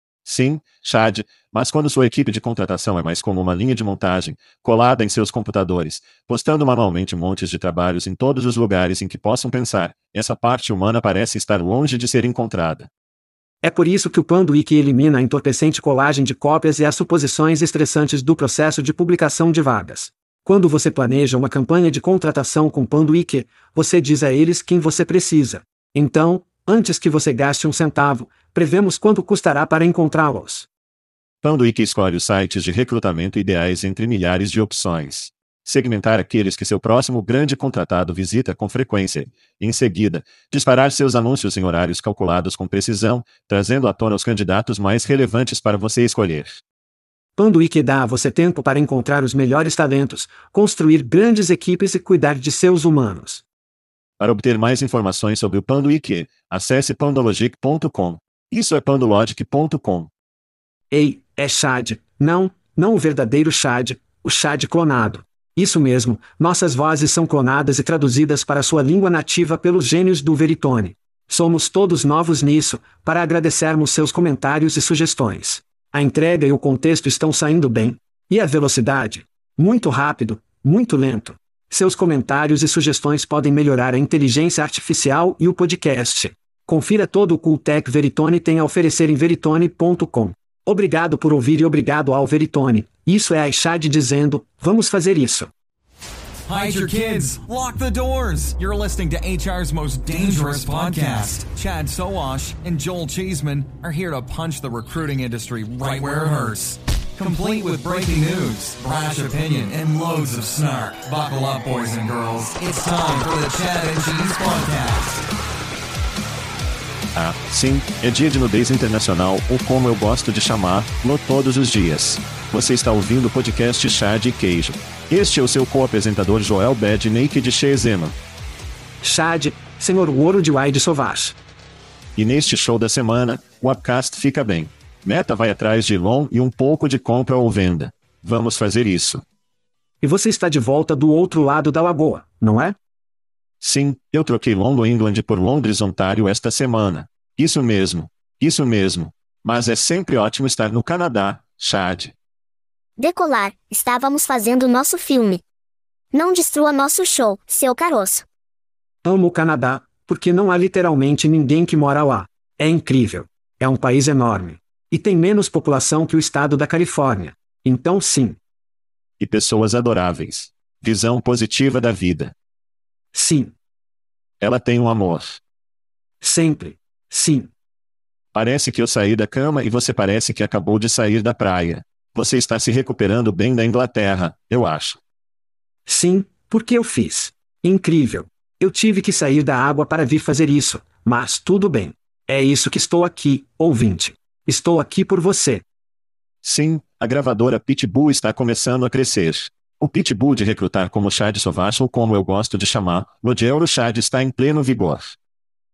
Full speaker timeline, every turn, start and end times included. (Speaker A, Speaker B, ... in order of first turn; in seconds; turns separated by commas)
Speaker A: 0.2-12.9, Speaker B: 13.6-30.7, Speaker A: 31.4-46.6, Speaker B: 47.4-53.4, Speaker A: 54.2-60.1, Speaker B: 60.9-95.5, Speaker C: 96.5-115.3, Speaker A: 117.1-128.2, Speaker B: 129.0-131.3, Speaker A: 132.2-139.2, Speaker B: 140.0-142.8, Speaker A: 143.6-152.1, Speaker D: 153.0-155.4, Speaker D: 156.1-158.3, Speaker B: 159.0-168.4, Speaker A: 169.2-172.3, Speaker B: 173.1-173.5, Speaker A: 174.4-175.4, Speaker B: 176.2-177.5, Speaker A: 178.3-185.0, Speaker B: 185.9-195.6, Speaker A: 196.4-205.1